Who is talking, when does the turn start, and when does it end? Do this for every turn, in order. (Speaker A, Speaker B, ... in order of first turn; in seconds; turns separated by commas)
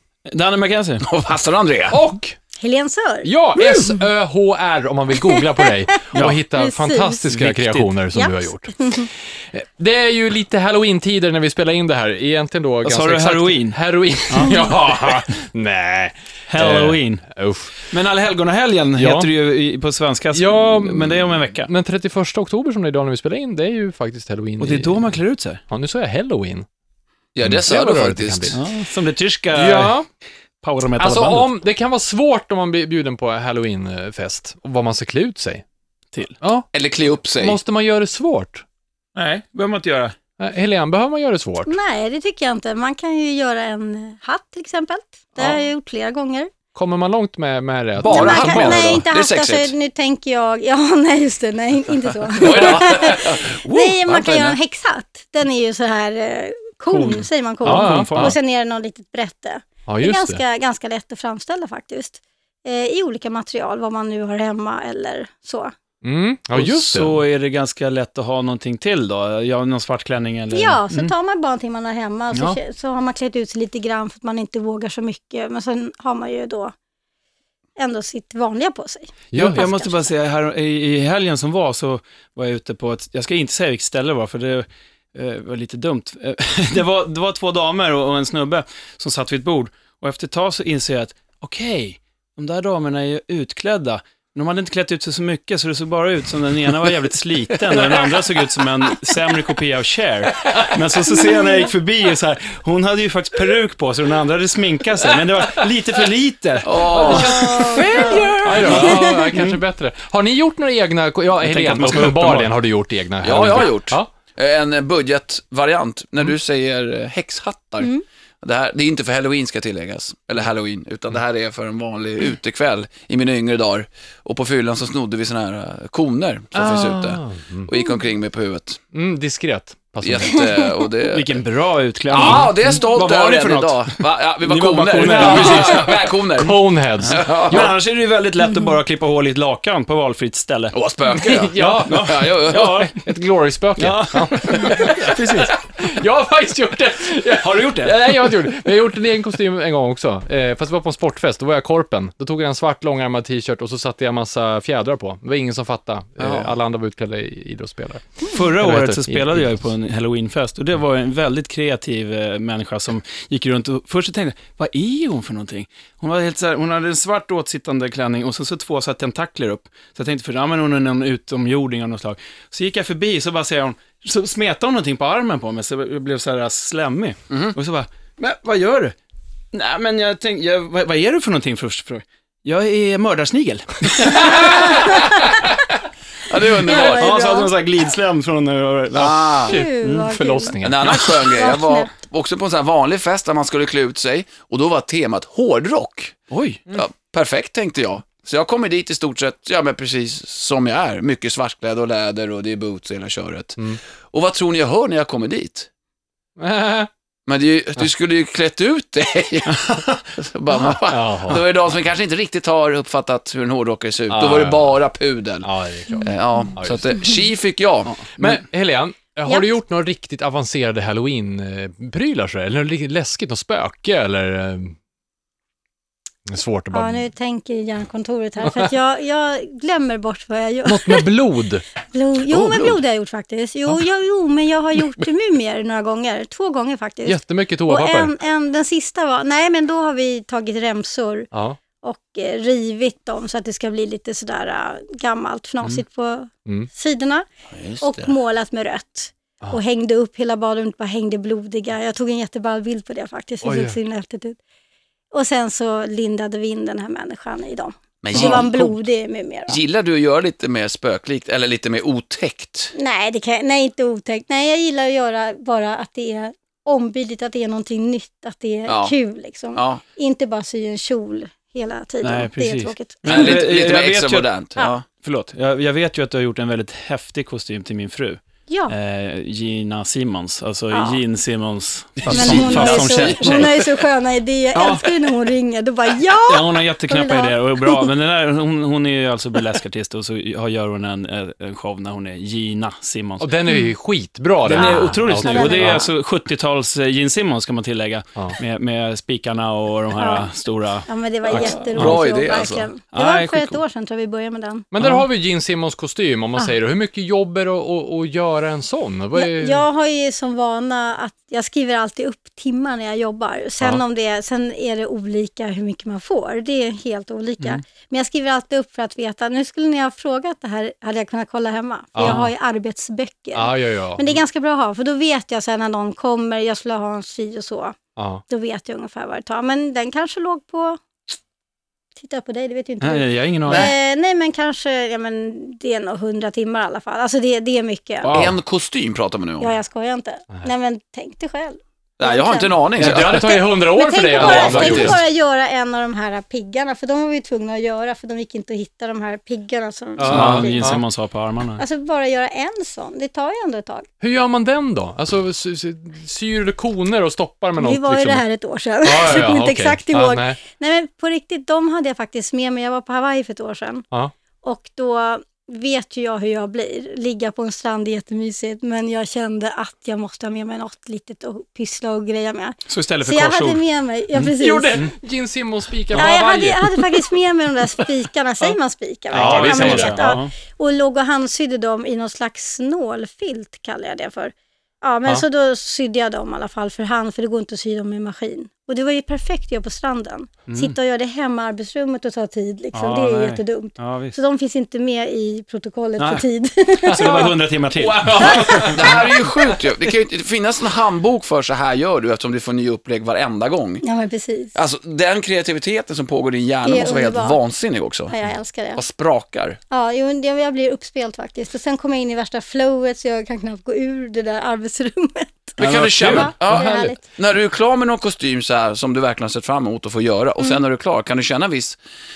Speaker A: 0.3-1.0, Speaker B: 1.0-2.0, Speaker C: 1.9-2.4, Speaker D: 2.6-4.0, Speaker C: 3.2-17.8, Speaker D: 5.2-7.3, Speaker A: 6.1-6.4, Speaker A: 7.4-7.9, Speaker D: 8.1-9.1, Speaker A: 12.8-13.8, Speaker A: 14.3-14.5, Speaker D: 14.4-14.7, Speaker A: 16.5-17.2, Speaker A: 17.9-21.7, Speaker C: 19.0-19.3, Speaker C: 20.3-25.2, Speaker A: 24.6-25.6, Speaker C: 25.7-26.6, Speaker B: 27.3-28.6, Speaker C: 27.4-28.6, Speaker A: 28.5-30.0, Speaker C: 29.5-30.1, Speaker A: 30.6-31.5, Speaker C: 31.0-35.6, Speaker C: 36.4-36.7, Speaker B: 36.7-37.6, Speaker C: 37.3-38.6, Speaker A: 39.1-40.1, Speaker C: 40.4-41.7, Speaker D: 41.7-46.5, Speaker C: 46.7-49.0, Speaker B: 48.0-49.7, Speaker D: 48.0-65.7, Speaker B: 52.4-54.6, Speaker A: 56.9-58.4, Speaker C: 57.6-58.4, Speaker C: 59.9-60.4, Speaker C: 66.0-67.2, Speaker A: 66.5-71.1, Speaker D: 70.5-76.7, Speaker A: 72.3-72.6, Speaker D: 77.8-80.1, Speaker C: 79.3-79.6, Speaker A: 79.3-109.6, Speaker D: 101.1-101.7, Speaker B: 106.6-107.4, Speaker C: 106.9-114.1, Speaker D: 107.0-109.3, Speaker A: 111.4-112.5, Speaker B: 113.2-128.8, Speaker C: 126.5-127.7, Speaker C: 128.9-130.5, Speaker B: 130.0-131.4, Speaker A: 131.1-135.8, Speaker C: 132.1-132.5, Speaker B: 132.1-137.7, Speaker C: 134.8-137.7, Speaker A: 137.1-140.8, Speaker B: 140.7-142.9, Speaker C: 141.2-159.5, Speaker A: 141.8-143.0, Speaker A: 143.8-145.5, Speaker A: 147.4-148.0, Speaker A: 156.2-156.5, Speaker A: 158.3-178.9, Speaker B: 177.3-177.6, Speaker A: 179.5-184.8, Speaker C: 184.2-184.8, Speaker B: 186.2-187.2, Speaker D: 186.7-187.5, Speaker A: 186.8-190.2, Speaker B: 188.9-189.6, Speaker D: 189.4-190.5, Speaker C: 189.4-191.0, Speaker B: 190.6-196.2, Speaker A: 190.8-191.2, Speaker D: 191.2-191.9, Speaker A: 196.3-196.6, Speaker B: 196.7-203.6, Speaker B: 204.1-205.7, Speaker C: 206.4-206.9, Speaker B: 207.2-217.9, Speaker A: 209.6-210.0, Speaker C: 210.8-211.4, Speaker C: 214.1-214.8, Speaker C: 215.4-216.8, Speaker A: 217.9-218.4, Speaker C: 218.2-224.7, Speaker C: 226.3-227.0, Speaker D: 226.7-231.1, Speaker C: 228.4-228.7, Speaker C: 230.6-231.6, Speaker D: 231.9-241.3, Speaker B: 232.3-232.8, Speaker C: 237.0-238.1, Speaker C: 241.3-241.6, Speaker D: 241.8-247.3, Speaker B: 247.5-248.1, Speaker D: 247.8-254.4, Speaker C: 253.4-253.8, Speaker D: 255.1-259.6, Speaker B: 258.0-258.8, Speaker B: 259.5-262.7, Speaker D: 262.7-273.3, Speaker B: 268.7-268.9, Speaker B: 269.5-269.8, Speaker A: 272.0-283.7, Speaker B: 273.1-274.8, Speaker D: 278.5-278.8, Speaker D: 280.7-281.0, Speaker D: 282.1-287.9, Speaker B: 282.1-283.5, Speaker A: 284.5-285.1, Speaker A: 286.3-293.3, Speaker C: 293.2-295.8, Speaker A: 294.4-302.0, Speaker D: 294.5-295.9, Speaker D: 299.9-300.3, Speaker D: 300.9-304.7, Speaker B: 301.3-302.7, Speaker A: 302.9-303.6, Speaker C: 304.7-309.6, Speaker A: 304.8-305.0, Speaker D: 309.1-327.8, Speaker C: 321.9-322.3, Speaker C: 323.3-324.2, Speaker C: 328.0-328.2, Speaker D: 328.3-330.8, Speaker D: 331.9-338.3, Speaker A: 332.8-333.7, Speaker A: 338.0-338.3, Speaker B: 338.1-339.5, Speaker D: 339.4-350.8, Speaker B: 342.0-343.4, Speaker C: 342.8-345.0, Speaker B: 344.2-345.0, Speaker C: 350.0-350.8, Speaker A: 350.1-351.6, Speaker D: 351.6-353.9, Speaker C: 354.0-358.2, Speaker D: 357.6-363.9, Speaker C: 358.8-360.4, Speaker D: 364.4-374.9, Speaker A: 372.7-373.6, Speaker A: 374.1-374.9, Speaker C: 374.4-377.1, Speaker D: 375.9-397.3, Speaker A: 379.1-380.3, Speaker C: 379.1-380.1, Speaker A: 390.4-390.7, Speaker A: 392.7-394.2, Speaker A: 396.0-396.2, Speaker C: 396.9-399.3, Speaker A: 396.9-398.9, Speaker D: 398.2-398.6, Speaker B: 398.2-403.8, Speaker D: 403.8-404.5, Speaker B: 404.5-408.1, Speaker D: 406.6-407.4, Speaker D: 408.1-408.8, Speaker B: 408.7-409.6, Speaker D: 409.7-417.0, Speaker A: 415.6-416.4, Speaker B: 415.6-421.8, Speaker C: 416.4-416.9